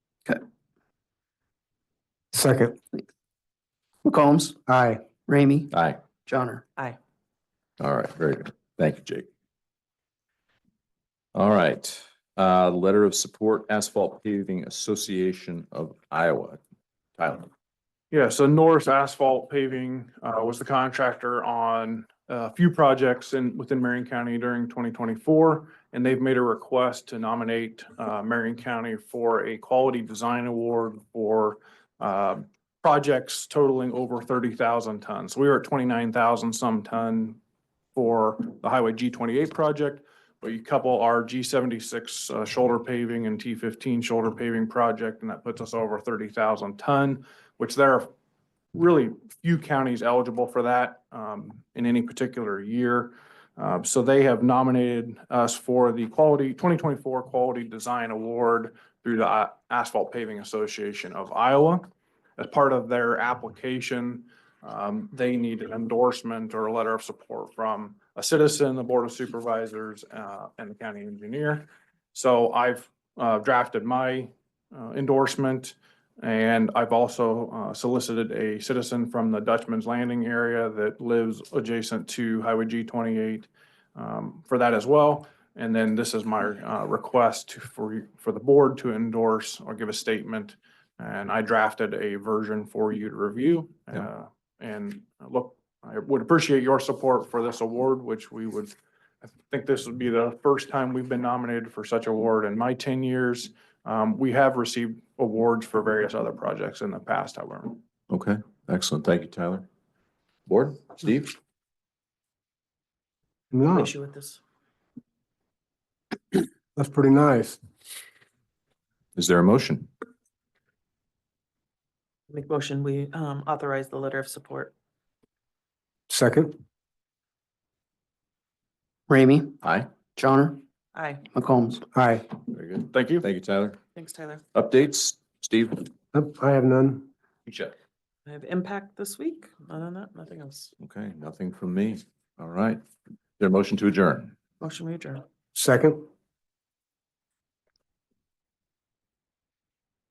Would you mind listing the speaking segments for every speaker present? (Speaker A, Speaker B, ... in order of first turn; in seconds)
Speaker A: 2.3-2.8, 4.7-5.1, 113.5-113.9, 116.3-117.6, 126.1-126.6, 131.9-132.3, 136.1-137.1, 145.6-146.1
Speaker B: 4.0-4.6, 5.2-5.7, 6.3-6.7, 129.1-129.6, 130.2-130.6, 131.3-131.8
Speaker C: 5.7-6.0, 7.8-9.3, 11.3-16.6, 17.2-17.5, 108.1-109.7, 110.5-111.4, 119.2-119.9, 129.6-129.9, 132.5-133.8, 134.5-135.9, 137.5-137.7, 140.8-142.8, 143.4-144.3
Speaker D: 18.1-37.4, 38.0-48.1, 48.7-61.8, 62.4-98.8, 99.4-107.8, 132.9-133.3
Speaker E: 113.6-114.4, 122.3-124.7, 130.9-131.2, 133.9-134.4, 138.3-140.7, 144.6-145.2